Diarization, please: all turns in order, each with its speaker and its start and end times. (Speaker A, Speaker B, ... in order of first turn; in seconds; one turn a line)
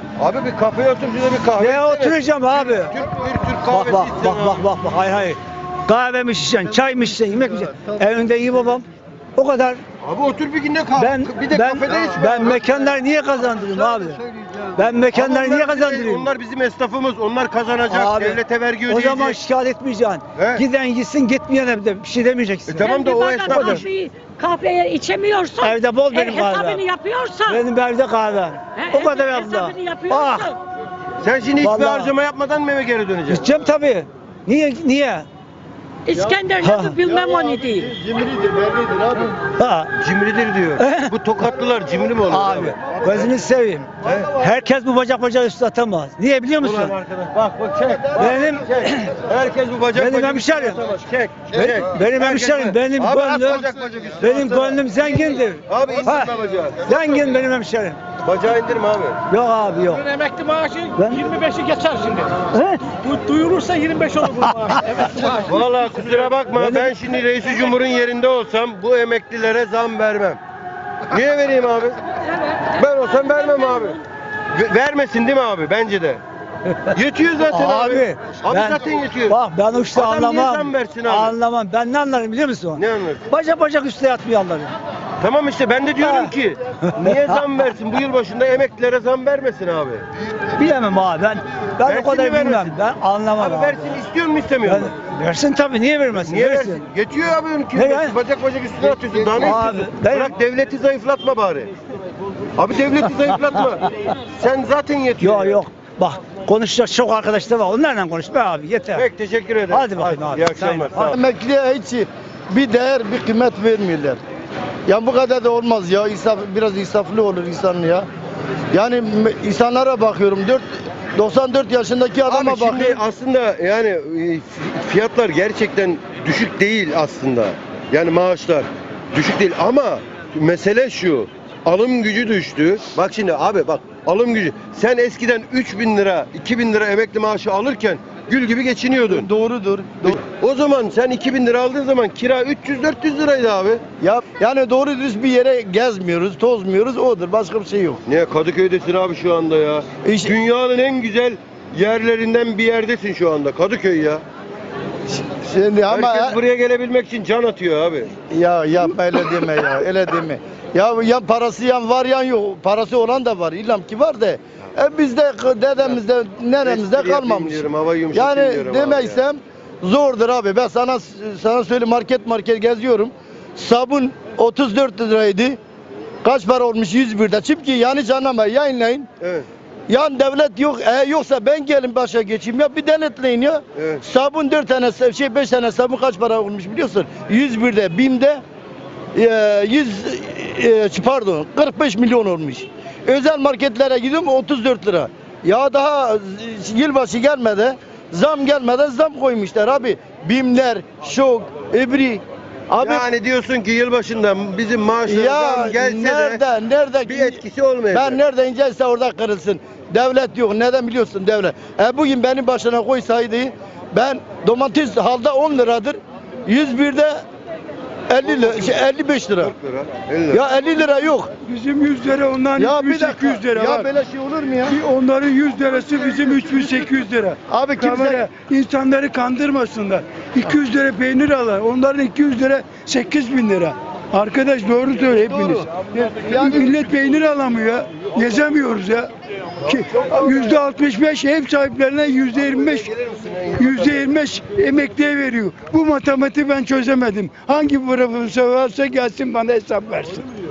Speaker A: 0.2-4.7
Speaker B: 1.6-2.9
Speaker B: 3.6-9.8
Speaker A: 10.0-19.4
Speaker B: 11.0-14.2
Speaker B: 14.8-16.3
Speaker B: 17.9-23.8
Speaker A: 20.3-20.6
Speaker A: 22.7-23.8
Speaker C: 22.8-27.6
Speaker B: 25.6-26.8
Speaker B: 27.5-30.5
Speaker C: 28.8-30.6
Speaker A: 31.2-33.5
Speaker B: 31.6-32.1
Speaker B: 33.3-35.2
Speaker C: 36.0-37.9
Speaker D: 36.1-39.4
Speaker B: 36.6-37.0
Speaker B: 39.5-39.9
Speaker A: 40.0-43.3
Speaker B: 40.8-41.1
Speaker B: 42.3-46.9
Speaker A: 44.0-44.4
Speaker A: 46.6-57.4
Speaker B: 48.1-49.1
Speaker B: 49.9-50.8
Speaker B: 51.5-53.6
Speaker B: 54.2-56.3
Speaker B: 56.8-58.0
Speaker A: 58.2-59.2
Speaker B: 59.3-60.0
Speaker E: 59.8-65.7
Speaker B: 61.0-61.2
Speaker B: 62.5-62.8
Speaker B: 64.5-65.0
Speaker A: 65.4-70.4
Speaker B: 66.5-66.9
Speaker A: 71.1-72.0
Speaker C: 72.1-74.0
Speaker A: 72.8-74.0
Speaker A: 74.5-76.2
Speaker A: 76.9-79.4
Speaker B: 77.5-84.7
Speaker A: 79.9-81.3
Speaker A: 82.8-83.2
Speaker A: 85.2-90.0
Speaker B: 86.0-86.3
Speaker B: 86.9-87.5
Speaker B: 90.5-94.0
Speaker A: 91.8-92.7
Speaker A: 93.3-94.9
Speaker B: 94.7-96.8
Speaker A: 96.1-101.7
Speaker B: 97.7-98.1
Speaker B: 99.4-100.3
Speaker A: 102.5-105.6
Speaker B: 105.2-109.0
Speaker A: 108.9-111.2
Speaker B: 109.7-111.1
Speaker D: 111.0-114.2
Speaker D: 114.9-118.1
Speaker D: 118.7-123.0
Speaker A: 122.3-139.3
Speaker D: 139.1-140.2
Speaker A: 140.0-143.8
Speaker D: 144.0-148.0
Speaker A: 148.1-154.2
Speaker D: 150.0-150.4
Speaker D: 155.1-156.4
Speaker A: 155.9-158.1
Speaker D: 158.3-175.6
Speaker A: 166.6-169.2
Speaker D: 176.2-179.1
Speaker A: 179.2-179.4
Speaker D: 179.9-188.4
Speaker A: 183.8-184.0
Speaker D: 189.1-203.1
Speaker A: 202.8-206.4
Speaker D: 205.1-217.2
Speaker A: 207.0-208.2
Speaker D: 218.1-219.5
Speaker A: 218.2-220.4
Speaker D: 220.3-221.3
Speaker F: 221.4-223.9
Speaker D: 222.6-224.8
Speaker F: 224.7-239.1
Speaker D: 227.5-228.2
Speaker D: 235.2-235.7
Speaker D: 236.2-236.8
Speaker F: 239.6-242.9
Speaker A: 239.6-240.6
Speaker A: 242.3-244.1
Speaker F: 243.6-250.2